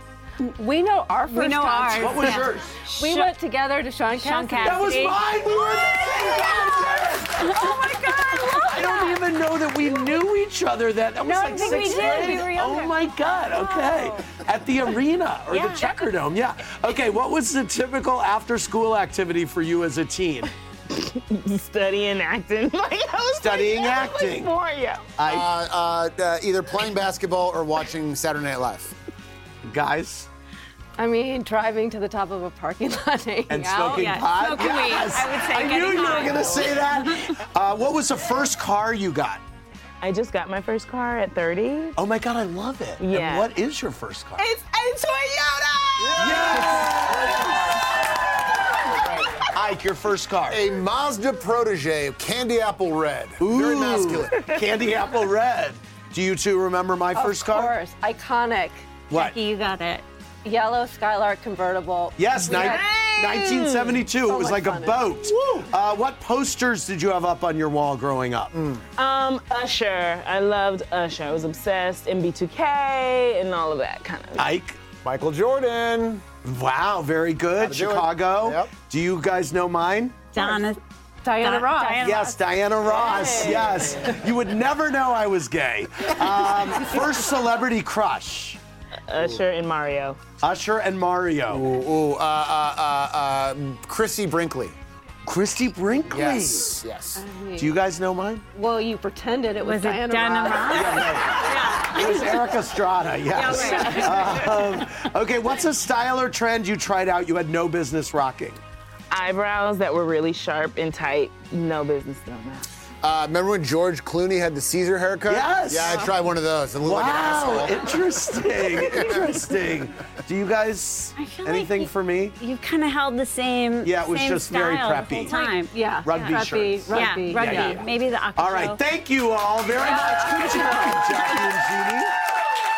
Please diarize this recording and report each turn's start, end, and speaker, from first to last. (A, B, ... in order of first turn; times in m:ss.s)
0:00.4-0:05.7 A
0:01.3-0:03.3 B
0:01.9-0:02.8 C
0:04.1-0:09.2 B
0:04.6-0:20.5 C
0:11.2-0:14.2 B
0:11.5-0:12.3 A
0:15.5-0:16.1 B
0:20.9-0:25.1 D
0:23.4-0:24.5 C
0:25.2-0:25.5 C
0:25.3-0:29.0 E
0:29.6-0:30.3 C
0:31.0-0:34.2 A
0:33.5-0:39.4 C
0:33.8-0:37.3 B
0:40.0-0:42.0 D
0:42.0-0:44.5 C
0:43.0-0:43.5 D
0:44.4-0:46.7 D
0:46.0-0:47.6 E
0:46.2-0:47.7 C
0:49.5-0:50.6 C
0:50.5-0:54.5 E
0:53.4-0:57.8 C
0:57.1-0:58.9 A
0:59.1-0:59.4 C
0:59.1-1:00.0 B
1:00.4-1:02.8 A
1:02.2-1:08.5 C
1:02.4-1:04.1 D
1:04.2-1:05.3 A
1:08.5-1:08.8 E
1:09.0-1:14.5 D
1:14.4-1:14.8 C
1:15.0-1:16.3 E
1:16.4-1:20.2 C
1:17.6-1:18.7 E
1:20.3-1:20.8 B
1:21.2-1:22.0 A
1:21.4-1:22.4 B
1:22.0-1:28.6 C
1:22.8-1:24.2 D
1:29.1-1:30.2 D
1:30.4-1:31.6 C
1:31.5-1:34.8 E
1:35.3-1:36.8 C
1:36.1-1:37.2 E
1:37.2-1:37.8 A
1:37.6-1:38.4 C
1:38.5-1:41.2 A
1:39.6-1:42.3 B
1:40.7-1:48.6 C
1:43.3-1:44.8 B
1:43.6-1:44.1 A
1:49.1-1:52.7 D
1:53.0-1:58.0 E
1:55.3-1:56.1 C
1:56.8-2:02.4 C
1:58.8-1:59.4 E
2:01.2-2:08.8 B
2:03.8-2:05.4 C
2:05.3-2:07.8 A
2:06.0-2:12.1 C
2:09.9-2:10.8 B
2:10.1-2:11.0 A